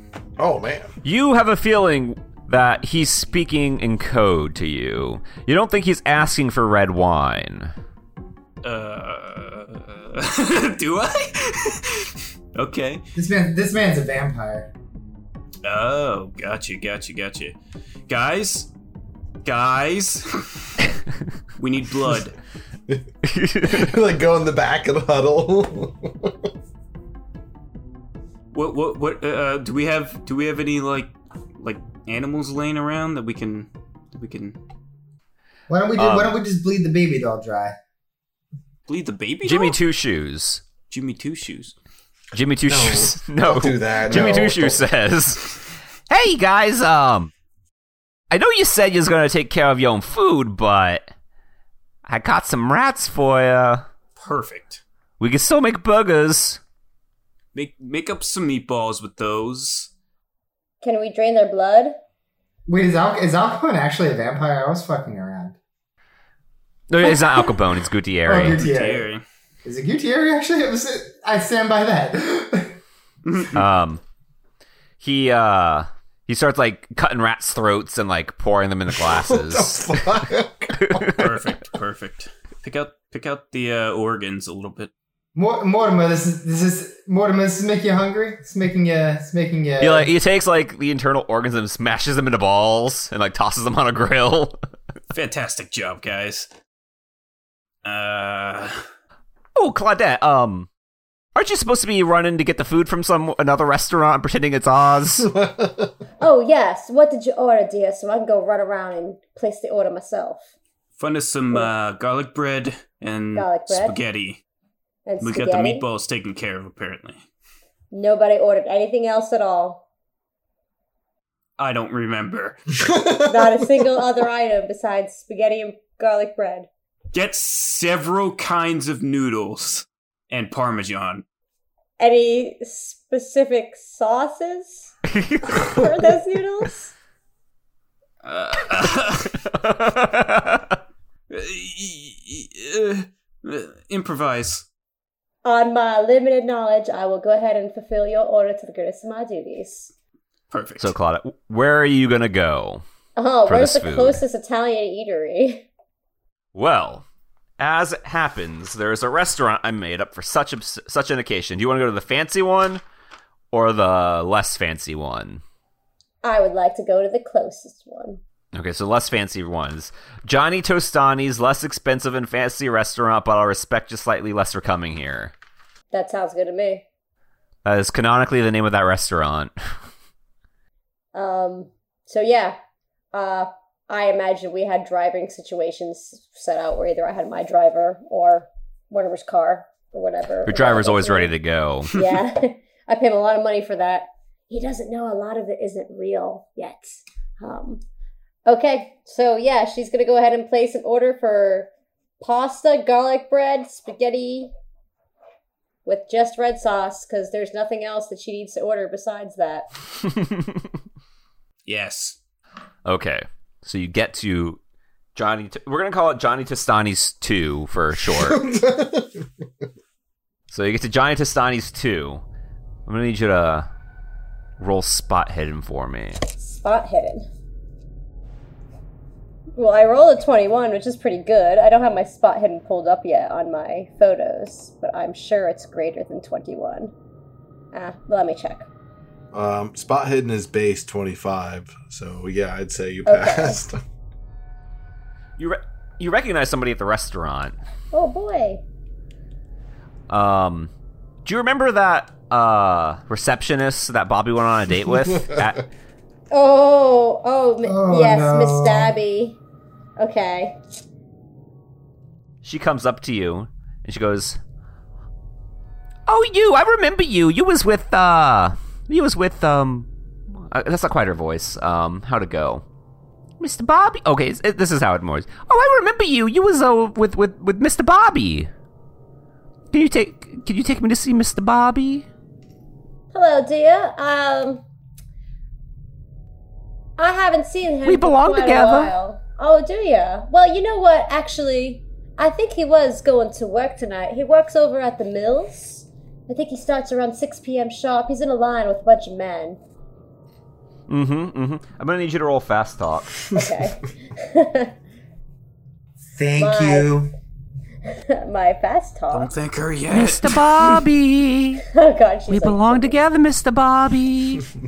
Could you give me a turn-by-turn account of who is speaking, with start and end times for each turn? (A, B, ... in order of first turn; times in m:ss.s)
0:00.4-0:00.9 A
0:01.0-0:07.7 B
0:08.6-0:13.0 C
0:13.2-0:14.7 D
0:15.6-0:17.6 C
0:18.1-0:18.7 C
0:19.4-0:20.9 C
0:21.6-0:22.4 C
0:23.2-0:23.9 B
0:23.6-0:26.5 A
0:28.5-0:34.6 C
0:35.7-0:37.8 D
0:36.0-0:36.4 B
0:38.9-0:39.8 C
0:39.4-0:40.6 B
0:40.9-0:41.8 C
0:42.3-0:45.5 B
0:42.7-0:44.9 A
0:46.1-0:47.3 B
0:48.3-0:51.1 B
0:52.1-0:53.8 B
0:54.2-0:54.8 C
0:55.2-0:56.6 B
0:57.6-0:59.9 C
1:00.8-1:02.0 E
1:02.7-1:05.6 D
1:06.9-1:08.6 B
1:07.1-1:07.5 D
1:08.3-1:09.1 D
1:08.5-1:09.2 C
1:09.6-1:12.8 D
1:13.2-1:13.5 C
1:13.5-1:14.0 B
1:15.0-1:19.9 B
1:18.9-1:21.2 A
1:20.8-1:21.3 B
1:21.1-1:24.9 C
1:25.4-1:30.1 D
1:29.8-1:34.6 B
1:35.1-1:36.5 C
1:37.8-1:38.8 C
1:39.6-1:40.7 B
1:41.4-1:45.3 B
1:45.2-1:45.9 A
1:46.2-1:50.5 E
1:51.0-1:54.4 C
1:53.4-1:54.0 E
1:55.1-1:55.9 E
1:55.2-1:57.2 C
1:57.9-1:59.8 E
2:01.6-2:02.6 C
2:02.8-2:03.5 A
2:03.2-2:06.7 E
2:07.1-2:11.2 C
2:12.0-2:14.9 E
2:15.1-2:15.6 B
2:15.5-2:16.9 E
2:18.2-2:19.4 C
2:19.5-2:20.8 B
2:21.3-2:24.7 C
2:25.4-2:29.9 E
2:30.5-2:30.9 C
2:30.8-2:32.8 B
2:33.2-2:35.7 E
2:33.5-2:34.2 B
2:36.6-2:37.1 B
2:37.6-2:42.8 B
2:43.5-2:45.4 B
2:46.2-2:48.2 E
2:48.5-2:55.3 B
2:55.9-2:56.8 E
2:57.6-2:59.5 B
3:01.1-3:02.6 E
3:03.1-3:11.3 E
3:10.4-3:11.9 B
3:11.9-3:17.8 E
3:18.5-3:21.7 E
3:22.2-3:24.5 E
3:25.8-3:29.7 E
3:30.2-3:30.6 B
3:31.7-3:32.2 C
3:32.8-3:34.6 B
3:35.2-3:38.4 B
3:38.0-3:39.3 A
3:40.5-3:42.2 B
3:42.9-3:43.7 B
3:44.6-3:46.2 B
3:46.4-3:47.2 E
3:49.6-3:56.9 E
3:57.7-3:58.7 E
3:59.3-4:03.8 A
4:03.1-4:03.6 E
4:05.4-4:07.6 B
4:07.9-4:08.6 E
4:10.1-4:10.7 B
4:11.2-4:15.6 B
4:15.1-4:15.5 A
4:16.3-4:19.4 E
4:17.6-4:18.9 D
4:20.0-4:20.6 E
4:22.4-4:24.4 B
4:26.1-4:29.9 B
4:30.4-4:32.6 B
4:33.4-4:38.5 B
4:39.7-4:42.1 B
4:43.1-4:44.6 E
4:47.0-4:59.6 E
4:47.8-4:48.9 B
5:00.9-5:03.2 B
5:03.3-5:04.7 E
5:06.1-5:07.1 D
5:06.4-5:07.0 E
5:07.9-5:09.3 E
5:09.1-5:10.8 C
5:09.9-5:11.6 B
5:11.7-5:13.0 E
5:12.3-5:14.4 B